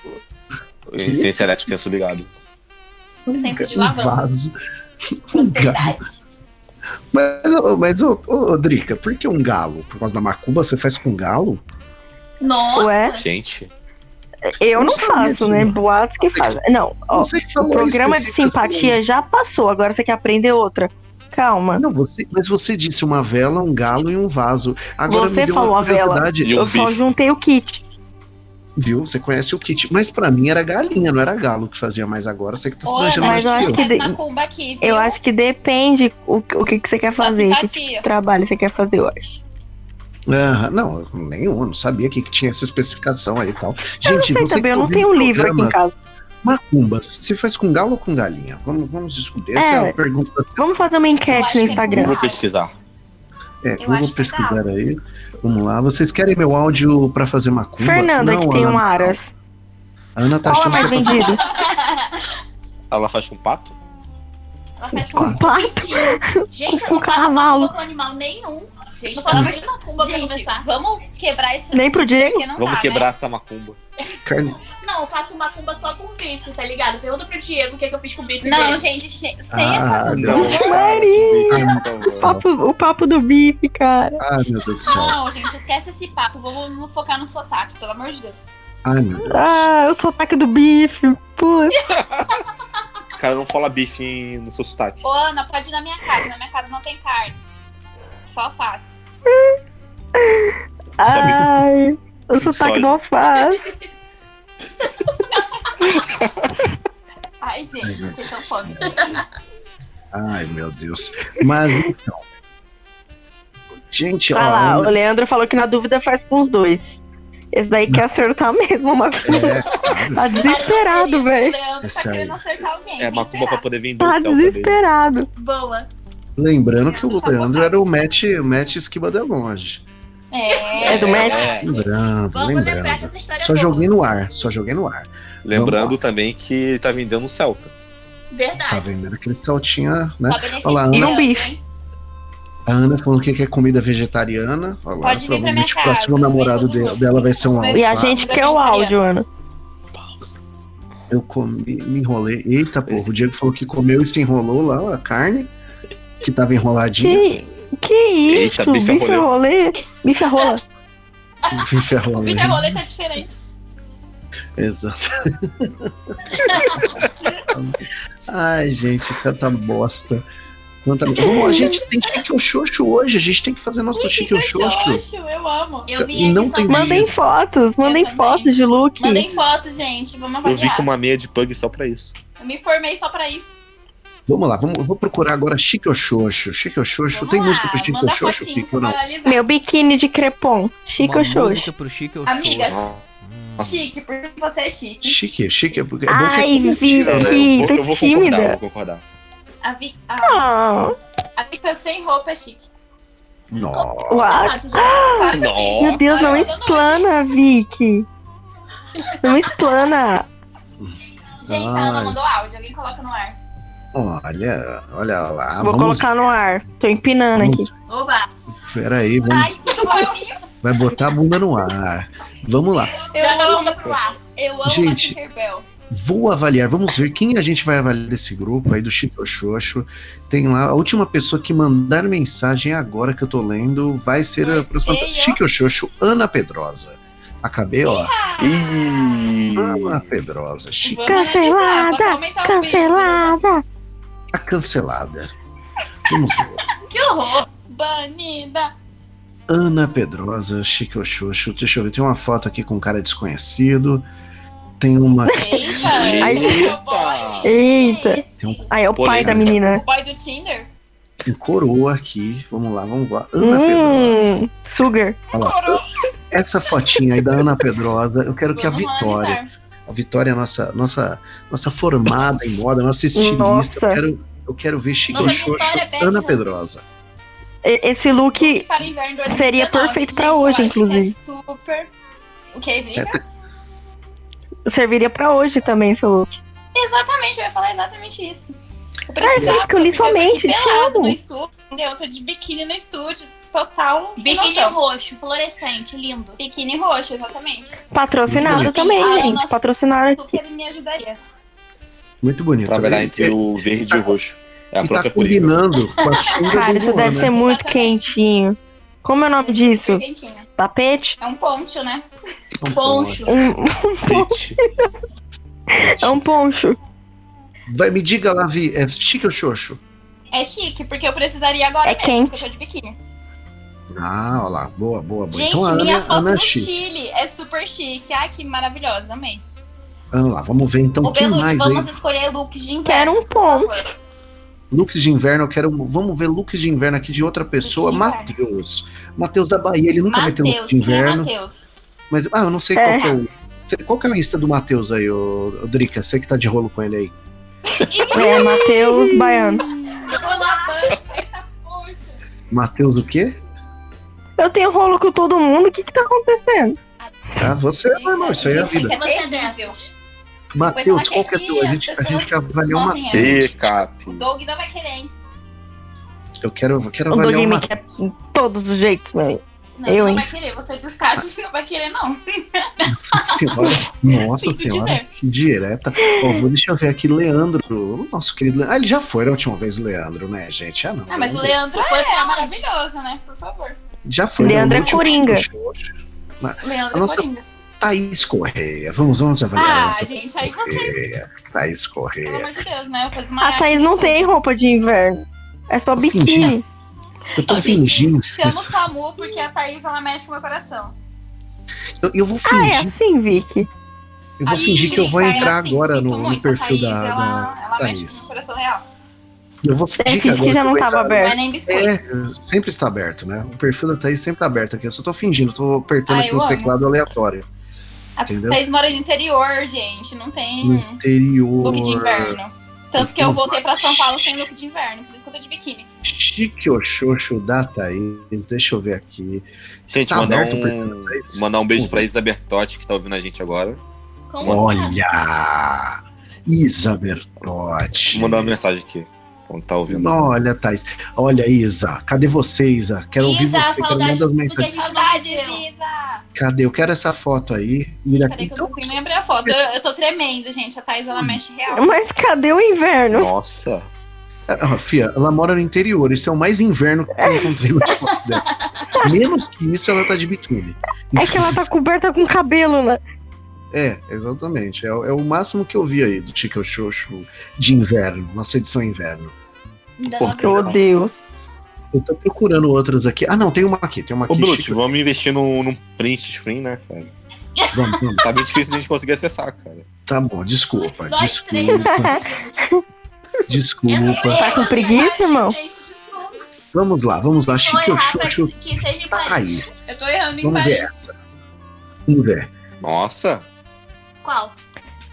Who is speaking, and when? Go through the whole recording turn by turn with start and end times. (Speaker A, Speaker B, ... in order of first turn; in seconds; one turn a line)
Speaker A: 0.9-2.3
Speaker B: 1.0-1.7
Speaker B: 3.3-4.5
Speaker C: 3.3-4.2
Speaker B: 5.3-6.2
Speaker C: 5.3-6.1
Speaker B: 7.1-11.6
Speaker D: 12.4-13.3
Speaker E: 12.7-13.2
Speaker A: 13.2-13.7
Speaker E: 14.5-21.8
Speaker B: 14.7-19.0
Speaker B: 21.8-26.5
Speaker E: 25.1-27.8
Speaker A: 26.4-27.1
Speaker B: 28.8-33.8
Speaker C: 32.9-35.2
Speaker E: 33.2-34.2
Speaker E: 34.8-39.4
Speaker C: 37.2-38.1
Speaker B: 40.3-45.8
Speaker E: 44.0-45.9
Speaker B: 46.4-50.7
Speaker E: 49.6-50.0
Speaker E: 50.6-52.2
Speaker C: 51.3-52.4
Speaker A: 51.8-52.8
Speaker B: 53.6-59.2
Speaker D: 53.8-54.4
Speaker C: 53.8-54.6
Speaker E: 57.8-59.3
Speaker B: 60.2-61.4
Speaker E: 60.4-61.4
Speaker D: 60.8-61.5
Speaker C: 60.8-62.1
Speaker A: 62.9-63.8
Speaker C: 64.8-66.2
Speaker B: 65.0-65.4
Speaker E: 65.2-67.7
Speaker D: 66.5-70.7
Speaker C: 69.0-73.1
Speaker E: 71.7-72.5
Speaker A: 72.6-73.8
Speaker B: 74.2-74.6
Speaker D: 74.7-78.8
Speaker C: 78.4-80.8
Speaker B: 79.5-80.6
Speaker A: 80.0-82.3
Speaker E: 80.3-84.2
Speaker B: 81.5-82.5
Speaker B: 84.2-85.2
Speaker C: 84.9-88.5
Speaker B: 88.8-89.7
Speaker E: 89.2-91.8
Speaker A: 92.0-92.3
Speaker A: 93.2-95.0
Speaker C: 95.0-97.4
Speaker C: 98.3-99.0
Speaker E: 100.2-103.7
Speaker A: 101.0-101.6
Speaker A: 102.3-102.9
Speaker A: 105.8-106.5
Speaker C: 107.4-109.2
Speaker B: 107.8-109.1
Speaker B: 110.1-112.2
Speaker B: 113.9-115.0
Speaker E: 114.3-117.0
Speaker E: 117.5-121.6
Speaker B: 119.2-120.4
Speaker D: 120.4-121.3
Speaker C: 120.5-123.7
Speaker B: 121.8-122.4
Speaker A: 123.0-124.8
Speaker E: 124.0-125.3
Speaker D: 125.4-125.9
Speaker B: 126.4-129.8
Speaker C: 126.9-127.8
Speaker C: 130.3-131.6
Speaker D: 130.5-134.0
Speaker A: 130.8-131.7
Speaker E: 130.9-131.5
Speaker B: 131.6-136.0
Speaker A: 135.4-137.7
Speaker D: 138.3-138.9
Speaker B: 138.7-141.2
Speaker C: 140.3-141.6
Speaker E: 140.9-141.5
Speaker B: 142.7-148.2
Speaker C: 145.0-149.0
Speaker E: 147.7-149.3
Speaker B: 151.1-155.5
Speaker B: 156.2-157.4
Speaker E: 157.0-160.6
Speaker A: 158.3-159.3
Speaker C: 161.4-163.4
Speaker B: 161.5-162.8
Speaker B: 164.6-166.9
Speaker C: 166.4-166.8
Speaker B: 167.5-170.3
Speaker B: 170.8-175.0
Speaker C: 174.0-176.0
Speaker D: 175.9-177.1
Speaker B: 176.0-177.1
Speaker E: 176.7-179.3
Speaker C: 177.8-180.9
Speaker A: 180.4-182.1
Speaker C: 182.4-183.6
Speaker B: 184.3-189.0
Speaker C: 187.1-189.5
Speaker E: 189.3-191.7
Speaker F: 191.0-193.7
Speaker C: 192.3-193.0
Speaker A: 192.7-192.9
Speaker C: 193.6-195.2
Speaker B: 195.0-197.6
Speaker E: 196.1-198.6
Speaker A: 197.0-199.0
Speaker C: 199.6-200.5
Speaker E: 200.2-200.9
Speaker C: 201.4-202.7
Speaker B: 203.5-204.8
Speaker C: 203.8-207.1
Speaker E: 204.1-208.1
Speaker A: 205.3-206.5
Speaker E: 209.2-210.3
Speaker B: 210.8-212.2
Speaker C: 211.4-213.4
Speaker B: 213.9-216.1
Speaker E: 215.6-217.7
Speaker B: 217.4-217.7
Speaker D: 217.9-218.3
Speaker B: 218.5-219.8
Speaker C: 219.2-220.4
Speaker B: 220.6-223.0
Speaker C: 222.8-225.7
Speaker D: 223.2-224.2
Speaker B: 224.7-225.2
Speaker B: 225.9-238.1
Speaker C: 234.4-235.4
Speaker C: 237.8-239.3
Speaker A: 238.4-240.0
Speaker B: 239.6-241.2
Speaker C: 240.8-243.5
Speaker E: 241.1-243.6
Speaker B: 244.3-245.3
Speaker B: 246.1-246.6
Speaker D: 246.9-247.5
Speaker C: 247.7-248.7
Speaker B: 249.5-254.1
Speaker B: 254.8-256.3
Speaker C: 255.3-258.7
Speaker E: 255.3-256.8
Speaker A: 255.8-257.5
Speaker D: 257.4-258.3
Speaker E: 257.4-259.8
Speaker B: 258.4-259.5
Speaker A: 259.0-259.6
Speaker C: 259.6-260.7
Speaker B: 261.2-264.3
Speaker E: 263.4-265.2
Speaker C: 265.3-265.9
Speaker B: 265.3-276.8
Speaker C: 268.5-269.5
Speaker E: 273.1-274.0
Speaker C: 275.1-276.4
Speaker D: 275.1-275.7
Speaker E: 277.6-278.7
Speaker C: 278.4-281.9
Speaker E: 279.3-281.1
Speaker C: 282.5-283.2
Speaker B: 282.9-283.2
Speaker E: 284.7-286.4
Speaker C: 286.7-288.4
Speaker C: 289.1-294.8
Speaker E: 289.2-291.2
Speaker D: 294.2-296.4
Speaker C: 296.4-297.8
Speaker E: 297.9-300.4
Speaker B: 298.3-299.0
Speaker C: 298.5-299.6
Speaker D: 298.8-299.2
Speaker C: 300.2-301.2
Speaker B: 302.2-303.4
Speaker A: 302.7-305.6
Speaker B: 304.8-307.4
Speaker C: 306.4-308.1
Speaker E: 306.4-310.0
Speaker C: 309.4-310.5
Speaker E: 310.6-311.2
Speaker C: 311.2-312.1
Speaker B: 312.6-313.4
Speaker D: 312.7-313.3
Speaker E: 313.3-314.4
Speaker A: 314.0-314.6
Speaker E: 315.7-316.8
Speaker B: 317.7-319.8
Speaker C: 320.3-323.0
Speaker E: 321.8-322.5
Speaker B: 323.9-326.8
Speaker C: 325.3-329.4
Speaker B: 330.1-331.9
Speaker C: 331.0-333.9
Speaker E: 332.9-333.9
Speaker B: 334.7-341.3
Speaker C: 337.6-338.4
Speaker C: 340.1-341.6
Speaker B: 342.1-347.1
Speaker E: 342.8-343.2
Speaker C: 347.8-348.8
Speaker D: 347.9-351.0
Speaker E: 348.1-349.7
Speaker C: 349.6-352.2
Speaker B: 352.5-353.4
Speaker E: 354.4-356.8
Speaker B: 357.4-359.0
Speaker C: 357.9-359.9
Speaker D: 358.4-359.9
Speaker B: 360.5-363.7
Speaker C: 360.7-365.1
Speaker A: 363.1-364.3
Speaker B: 366.4-367.7
Speaker E: 367.1-370.3
Speaker C: 369.8-373.6
Speaker B: 372.9-381.6
Speaker C: 374.4-375.1
Speaker C: 381.1-383.8
Speaker D: 381.8-382.6
Speaker B: 384.1-387.3
Speaker E: 384.4-385.4
Speaker C: 384.6-385.2
Speaker C: 386.6-387.4
Speaker B: 387.8-392.5
Speaker C: 389.6-391.0
Speaker C: 392.2-394.4
Speaker E: 393.4-396.6
Speaker B: 395.9-396.6
Speaker B: 397.4-398.8
Speaker C: 397.4-400.9
Speaker B: 402.0-403.0
Speaker E: 402.5-403.7
Speaker B: 404.4-408.3
Speaker C: 404.5-408.9
Speaker B: 409.6-417.5
Speaker E: 410.0-411.4
Speaker C: 411.1-411.9
Speaker C: 416.1-416.8
Speaker C: 418.2-421.0
Speaker B: 418.2-418.6
Speaker B: 420.6-422.4
Speaker C: 421.6-425.9
Speaker B: 423.0-424.5
Speaker B: 426.0-429.5
Speaker A: 429.9-433.8
Speaker B: 430.1-432.1
Speaker D: 434.3-435.0
Speaker A: 434.4-434.7
Speaker B: 434.4-438.6
Speaker A: 438.1-440.2
Speaker B: 439.9-444.7
Speaker D: 443.2-445.6
Speaker C: 444.8-446.2
Speaker B: 446.4-448.9
Speaker C: 448.1-452.0
Speaker E: 451.7-453.3
Speaker A: 453.1-453.9
Speaker B: 454.5-458.4
Speaker B: 459.0-461.7
Speaker E: 461.1-463.0
Speaker B: 463.7-469.4
Speaker D: 470.0-470.7
Speaker A: 470.1-470.8
Speaker C: 470.2-470.6
Speaker E: 470.4-471.2
Speaker B: 471.9-474.8
Speaker A: 474.3-477.1
Speaker D: 477.6-478.2
Speaker B: 477.7-478.3
Speaker A: 478.2-479.9
Speaker B: 480.1-482.2
Speaker D: 480.8-482.6
Speaker E: 481.9-482.2
Speaker B: 483.5-484.5
Speaker D: 483.9-485.1
Speaker C: 484.0-486.4
Speaker E: 484.4-485.6
Speaker B: 486.7-491.1
Speaker D: 487.5-489.5
Speaker C: 489.9-490.9
Speaker B: 492.1-492.5
Speaker A: 492.8-493.4
Speaker D: 494.2-494.5